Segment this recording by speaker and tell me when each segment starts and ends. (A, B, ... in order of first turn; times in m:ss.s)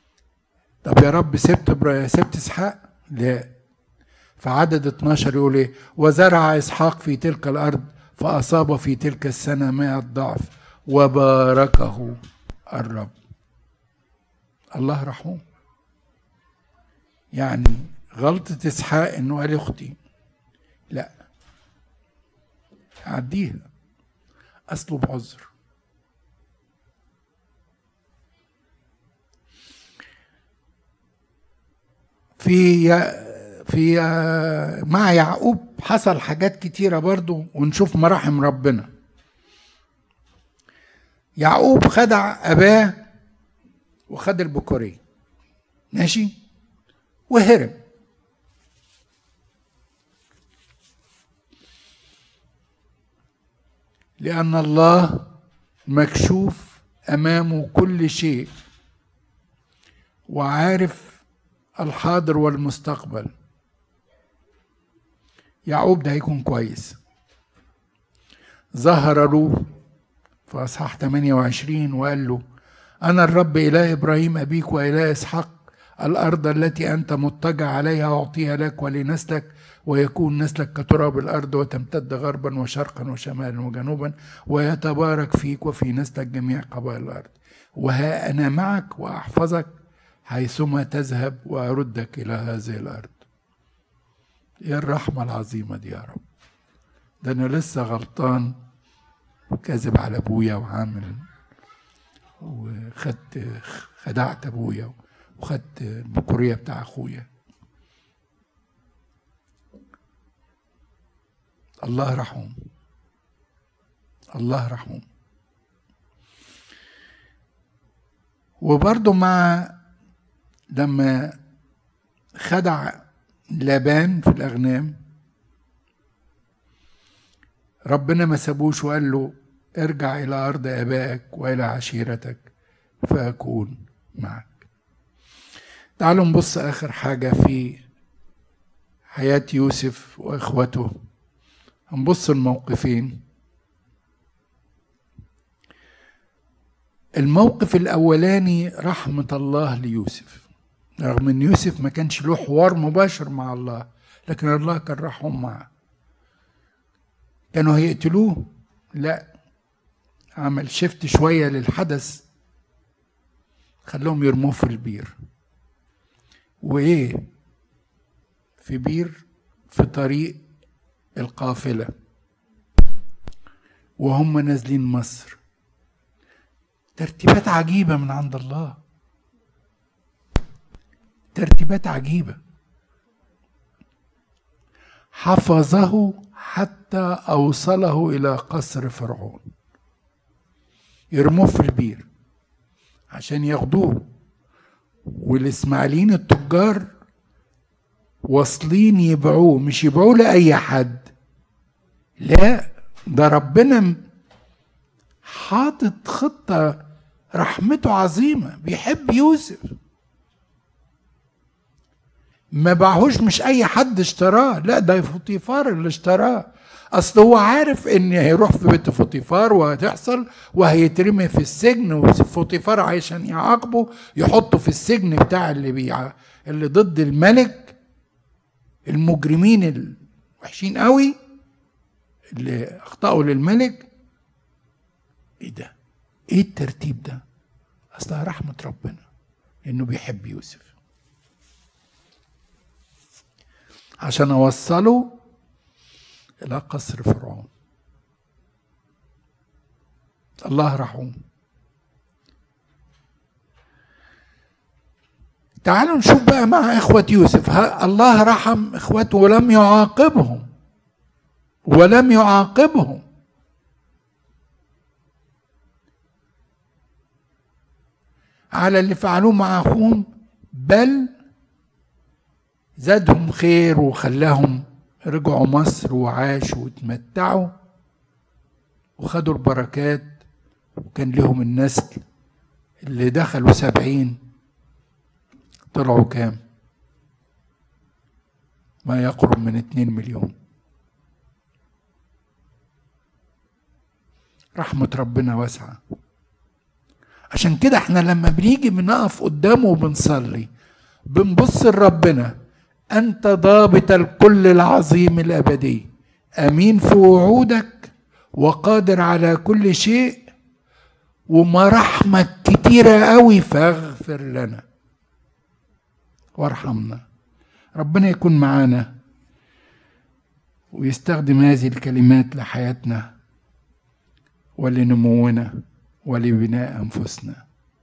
0:00.8-0:03.5 A
0:04.4-0:13.1 A
0:14.8-0:15.4 A
0:17.3-0:20.0 A
0:23.0-0:23.6 A
0:24.7-0:25.5 A
0:32.4-0:38.9 A
0:41.4-0:43.0 A
0:44.1-0:45.0 A
0:45.9-0:46.3 A
0:47.3-0:47.8 A
0:54.2-0:55.3 A
0:55.9-0:58.5 A
1:00.3-1:01.2 A
1:01.8-1:03.3 A
1:05.7-1:07.0 A
1:08.8-1:09.7 A
1:10.5-1:12.4 A
1:13.0-1:29.7 A
1:30.3-1:33.2 A
1:34.6-1:36.2 A
1:37.2-1:38.6 A
1:39.5-1:41.2 A
1:42.4-1:47.3 A
1:51.8-1:52.6 A
1:54.3-1:55.0 A
1:58.6-1:59.8 A
2:00.7-2:01.4 A
2:02.4-2:05.0 A
2:07.9-2:12.4 A
2:13.0-2:14.6 A
2:16.0-2:17.8 A
2:19.1-2:21.0 A
2:21.9-2:23.2 A
2:27.2-2:30.4 A
2:31.0-2:35.7 A
2:37.5-2:39.2 A
2:40.4-2:42.2 A
2:43.9-2:45.2 A
2:46.6-2:47.3 A
2:48.6-2:50.4 A
2:51.2-2:51.9 A
2:54.0-2:55.4 A
2:57.0-2:58.8 A
3:01.4-3:02.4 A
3:05.2-3:09.4 A
3:11.1-3:12.1 A
3:13.1-3:14.0 A
3:15.1-3:16.9 A
3:18.3-3:21.1 A
3:22.2-3:24.0 A
3:25.2-3:26.8 A
3:27.4-3:29.7 A
3:32.5-3:47.8 A
3:48.9-3:51.2 A
3:52.3-3:53.9 A
3:55.4-3:55.7 A
3:56.3-3:57.2 A
3:57.9-3:59.0 A
3:59.6-4:00.7 A
4:04.0-4:05.2 A
4:06.4-4:07.5 A
4:10.4-4:11.2 A
4:15.6-4:20.5 A
4:21.7-4:23.0 A
4:28.6-4:31.1 A
4:32.8-4:37.5 A
4:39.0-4:40.1 A
4:40.9-4:42.0 A
4:42.8-4:44.2 A
4:45.7-4:46.4 A
4:48.8-4:50.3 A
4:54.6-4:55.8 A
4:57.3-5:00.5 A
5:01.1-5:02.4 A
5:02.9-5:05.9 A
5:06.4-5:10.2 A
5:11.3-5:14.6 A
5:16.4-5:17.0 A
5:17.8-5:18.9 A
5:20.7-5:23.1 A
5:24.6-5:27.4 A